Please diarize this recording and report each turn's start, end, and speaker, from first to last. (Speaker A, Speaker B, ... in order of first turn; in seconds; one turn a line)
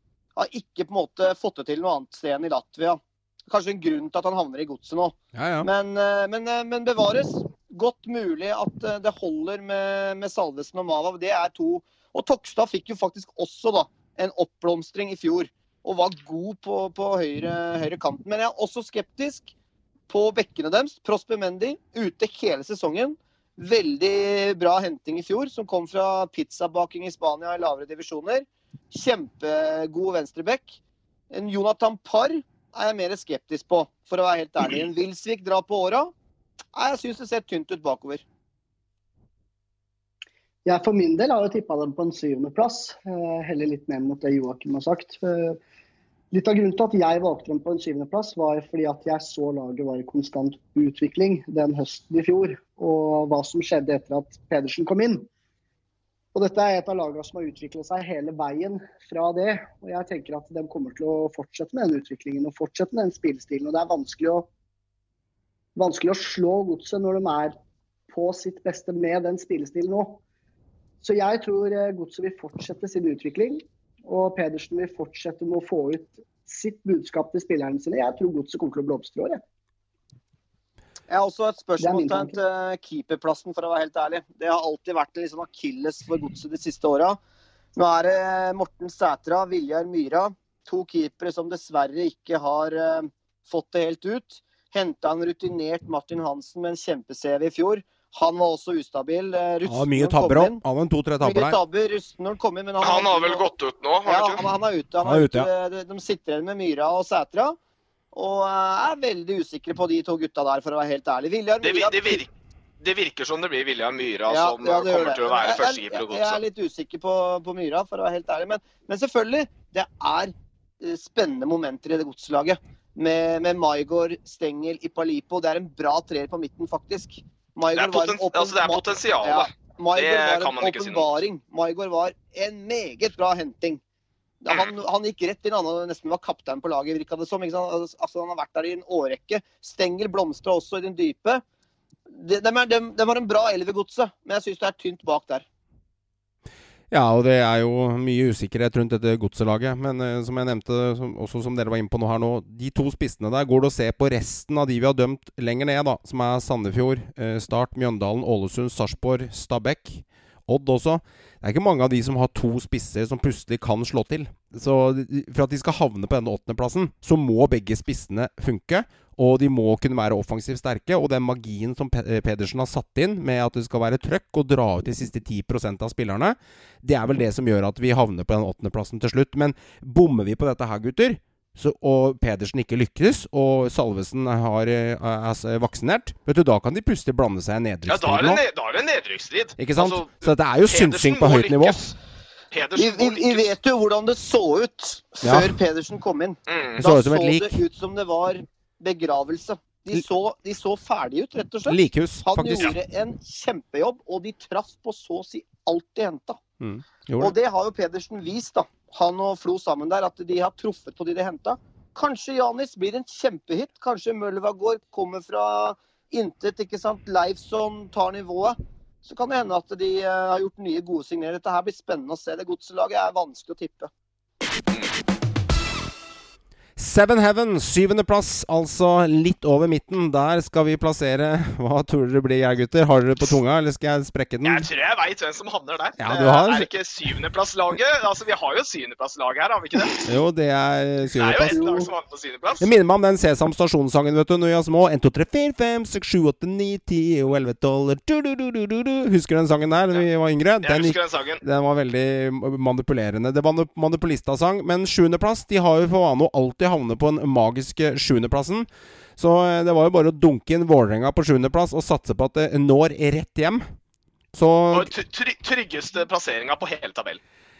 Speaker A: 0.3-19.5
Speaker B: 5.3-5.7
Speaker A: 20.1-30.8
Speaker A: 31.3-36.1
Speaker A: 36.7-38.2
Speaker C: 40.6-45.6
Speaker C: 46.3-55.3
Speaker C: 56.3-64.5
Speaker C: 65.8-67.5
Speaker C: 68.1-70.2
Speaker C: 71.0-79.4
Speaker A: 81.1-87.2
Speaker C: 81.8-82.4
Speaker A: 87.7-100.6
Speaker B: 99.7-101.6
Speaker A: 101.2-103.5
Speaker D: 102.8-104.5
Speaker A: 104.0-107.6
Speaker B: 105.0-105.5
Speaker A: 108.1-112.2
Speaker D: 111.6-116.4
Speaker A: 114.3-133.8
Speaker D: 127.7-131.2
Speaker A: 134.4-141.4
Speaker A: 142.1-145.4
Speaker B: 146.9-188.4
Speaker D: 187.9-192.0
Speaker B: 189.6-191.8
Speaker D: 192.5-193.6
Speaker A: 192.8-206.4
Speaker B: 195.2-195.6
Speaker D: 196.5-196.8
Speaker B: 196.8-197.6
Speaker B: 201.7-202.7
Speaker B: 206.6-207.3
Speaker A: 207.2-223.9
Speaker B: 226.8-234.7
Speaker D: 234.4-240.1
Speaker B: 236.0-236.7
Speaker B: 240.0-241.6
Speaker D: 241.1-242.7
Speaker B: 242.6-263.6
Speaker D: 250.6-251.4
Speaker B: 264.3-264.9
Speaker D: 264.7-267.2